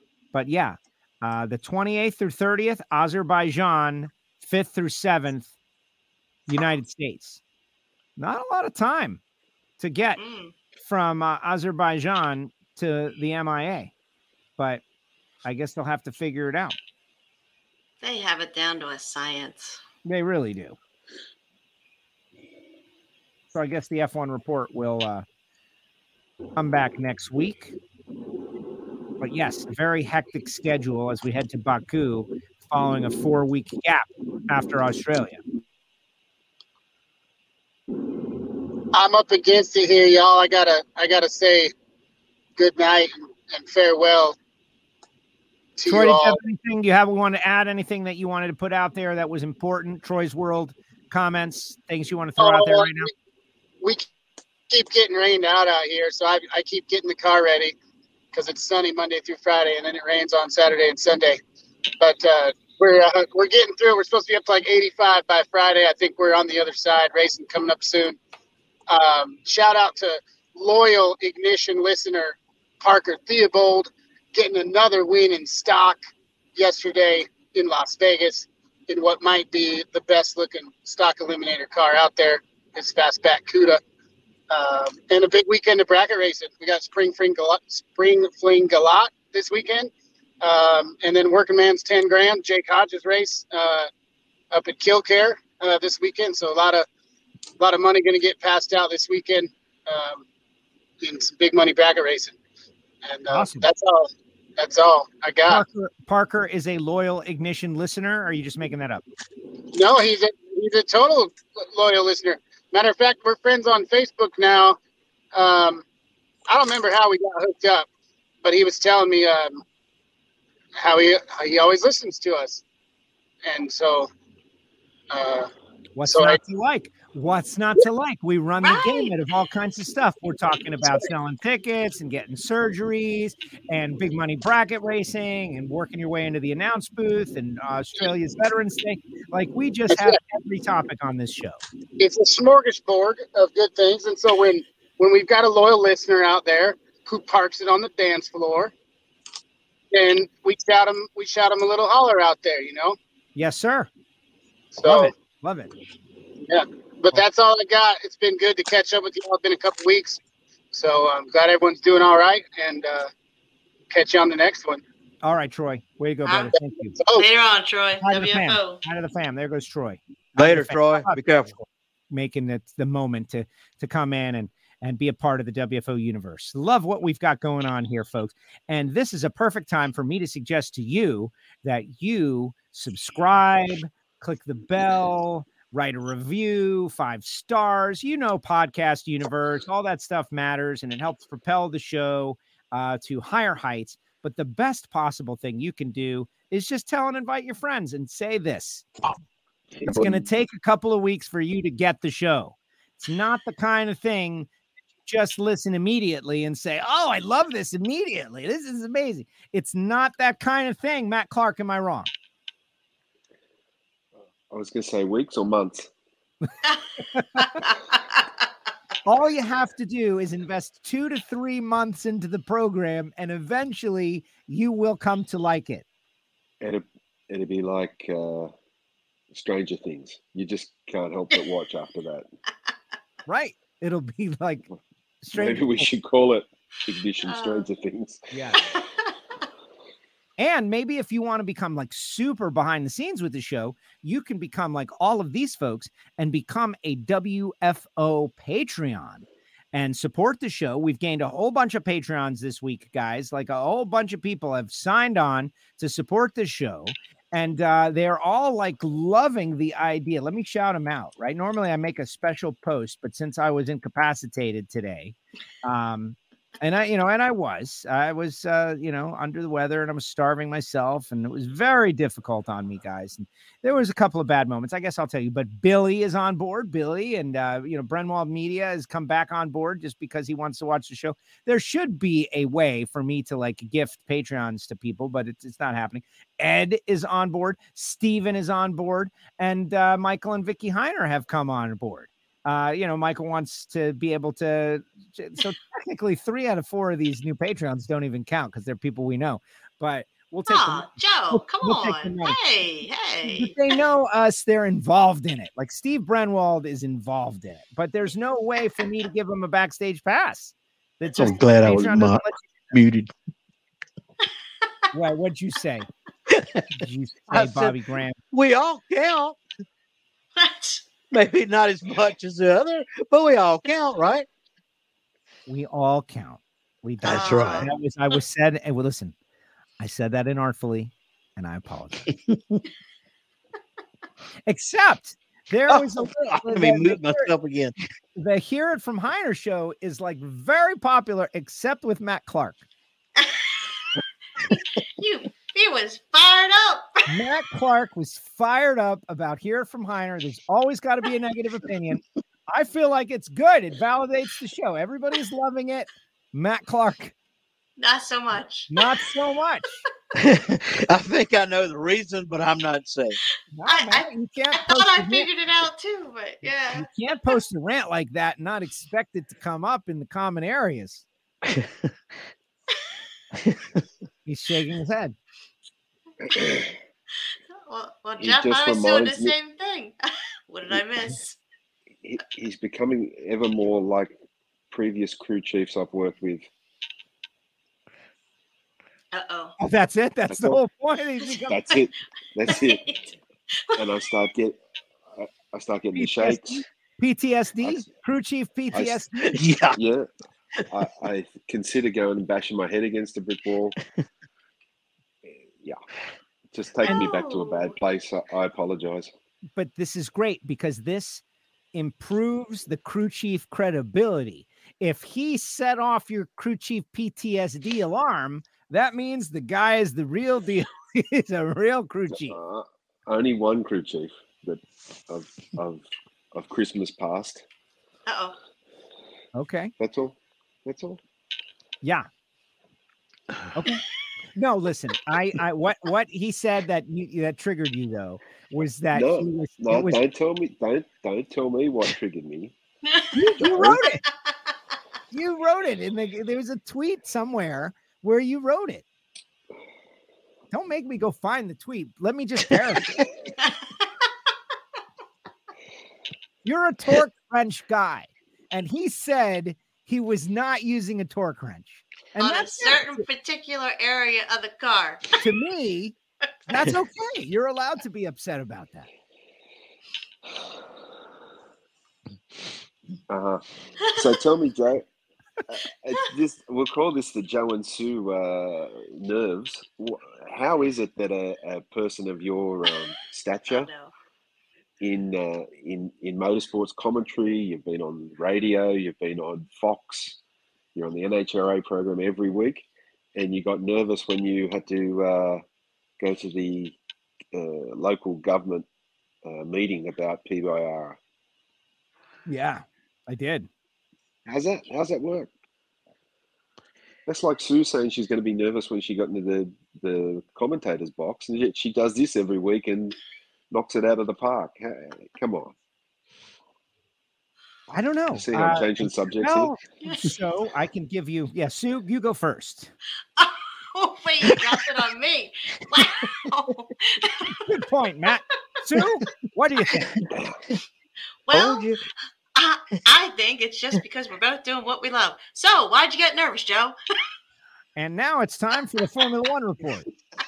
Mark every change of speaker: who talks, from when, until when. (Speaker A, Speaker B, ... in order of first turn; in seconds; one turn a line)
Speaker A: 0.3-5.5
Speaker A: 6.5-7.4
Speaker A: 8.2-9.2
Speaker A: 9.8-10.2
Speaker B: 10.2-10.5
Speaker A: 10.8-13.9
Speaker A: 15.4-16.8
Speaker B: 18.0-19.8
Speaker A: 20.0-20.8
Speaker A: 23.5-25.2
Speaker A: 26.6-27.8
Speaker A: 29.2-35.4
Speaker C: 38.9-41.7
Speaker C: 42.6-44.3
Speaker C: 45.8-46.4
Speaker A: 45.9-53.1
Speaker C: 52.4-53.1
Speaker C: 53.8-54.1
Speaker C: 54.7-57.8
Speaker C: 58.3-61.4
Speaker C: 62.0-68.2
Speaker C: 68.9-76.0
Speaker C: 76.5-83.8
Speaker C: 84.5-93.9
Speaker C: 94.5-96.8
Speaker C: 97.6-100.2
Speaker C: 101.0-102.4
Speaker C: 103.0-105.6
Speaker A: 103.3-103.7
Speaker A: 105.5-109.0
Speaker C: 109.7-114.8
Speaker C: 115.3-115.8
Speaker C: 116.5-117.9
Speaker C: 118.4-119.6
Speaker C: 120.8-122.6
Speaker C: 123.4-124.1
Speaker C: 125.1-125.5
Speaker A: 126.0-141.6
Speaker C: 126.0-126.4
Speaker B: 128.6-129.1
Speaker C: 139.9-140.2
Speaker C: 142.0-148.7
Speaker C: 149.9-153.0
Speaker A: 153.3-153.9
Speaker C: 154.7-155.1
Speaker A: 154.8-155.7
Speaker C: 156.4-160.2
Speaker C: 160.7-163.1
Speaker C: 163.9-164.8
Speaker A: 165.2-166.9
Speaker B: 166.2-166.6
Speaker C: 166.9-167.2
Speaker B: 167.1-168.8
Speaker A: 168.0-198.9
Speaker D: 170.4-171.5
Speaker E: 199.7-200.2
Speaker A: 199.8-204.5
Speaker A: 205.1-212.1
Speaker E: 214.5-215.9
Speaker A: 217.1-217.5
Speaker B: 217.3-217.8
Speaker A: 219.0-225.8
Speaker E: 226.6-228.5
Speaker E: 229.3-232.2
Speaker A: 233.2-234.6
Speaker A: 235.2-235.9
Speaker E: 235.3-238.3
Speaker B: 237.2-237.7
Speaker A: 238.3-238.6
Speaker B: 238.6-238.8
Speaker A: 240.4-302.4
Speaker B: 300.4-303.8
Speaker A: 303.2-312.4
Speaker D: 311.1-313.1
Speaker A: 314.9-315.9
Speaker D: 316.3-316.6
Speaker A: 316.7-318.2
Speaker D: 317.3-317.8
Speaker D: 318.3-319.4
Speaker B: 320.4-320.8
Speaker D: 321.1-324.2
Speaker A: 325.4-329.1
Speaker D: 327.0-327.7
Speaker B: 327.1-327.7
Speaker A: 329.8-332.1
Speaker D: 332.1-332.6
Speaker A: 334.5-337.3
Speaker D: 335.7-337.7
Speaker A: 338.1-342.6
Speaker B: 345.0-346.9
Speaker A: 347.1-357.1
Speaker B: 357.8-358.9
Speaker A: 358.7-359.8
Speaker D: 360.2-363.2
Speaker A: 363.5-365.3
Speaker B: 363.7-367.3
Speaker A: 366.7-371.0
Speaker A: 374.2-375.1
Speaker E: 376.3-376.7
Speaker B: 377.6-379.9
Speaker E: 378.2-379.3
Speaker B: 380.5-381.4
Speaker E: 382.0-384.1
Speaker E: 384.7-386.5
Speaker B: 389.1-389.5
Speaker A: 389.6-391.6
Speaker E: 390.3-390.6
Speaker E: 391.4-392.8
Speaker B: 392.5-393.8
Speaker E: 393.8-394.6
Speaker E: 395.1-396.6
Speaker A: 395.9-399.4
Speaker E: 398.7-399.0
Speaker D: 399.1-399.8
Speaker E: 399.8-400.1
Speaker E: 400.7-403.7
Speaker E: 406.5-409.1
Speaker B: 406.8-407.7
Speaker A: 409.5-411.2
Speaker A: 411.7-422.4
Speaker E: 422.2-427.4
Speaker B: 428.1-428.4
Speaker A: 429.3-429.7
Speaker E: 429.8-431.0
Speaker A: 431.8-432.1
Speaker A: 433.5-433.8
Speaker A: 434.3-440.0
Speaker E: 438.9-442.5
Speaker B: 442.9-443.8
Speaker A: 443.1-444.0
Speaker E: 443.4-443.8
Speaker A: 445.1-448.8
Speaker A: 450.5-453.1
Speaker A: 456.4-463.0
Speaker B: 462.2-465.1
Speaker A: 465.2-465.9
Speaker A: 466.5-468.9
Speaker E: 473.1-474.8
Speaker E: 475.5-483.7
Speaker B: 483.5-483.9
Speaker E: 484.8-490.2
Speaker E: 490.7-495.4
Speaker E: 496.0-496.8
Speaker E: 497.3-498.6
Speaker E: 499.2-501.0
Speaker A: 502.2-503.5
Speaker E: 504.3-505.3
Speaker E: 507.1-513.0
Speaker E: 513.5-515.5
Speaker A: 517.7-522.7
Speaker E: 518.1-519.5
Speaker B: 519.8-520.1
Speaker B: 523.2-527.4
Speaker A: 527.3-530.0
Speaker B: 531.3-531.7
Speaker D: 531.3-531.8
Speaker B: 532.4-536.8
Speaker A: 537.8-539.9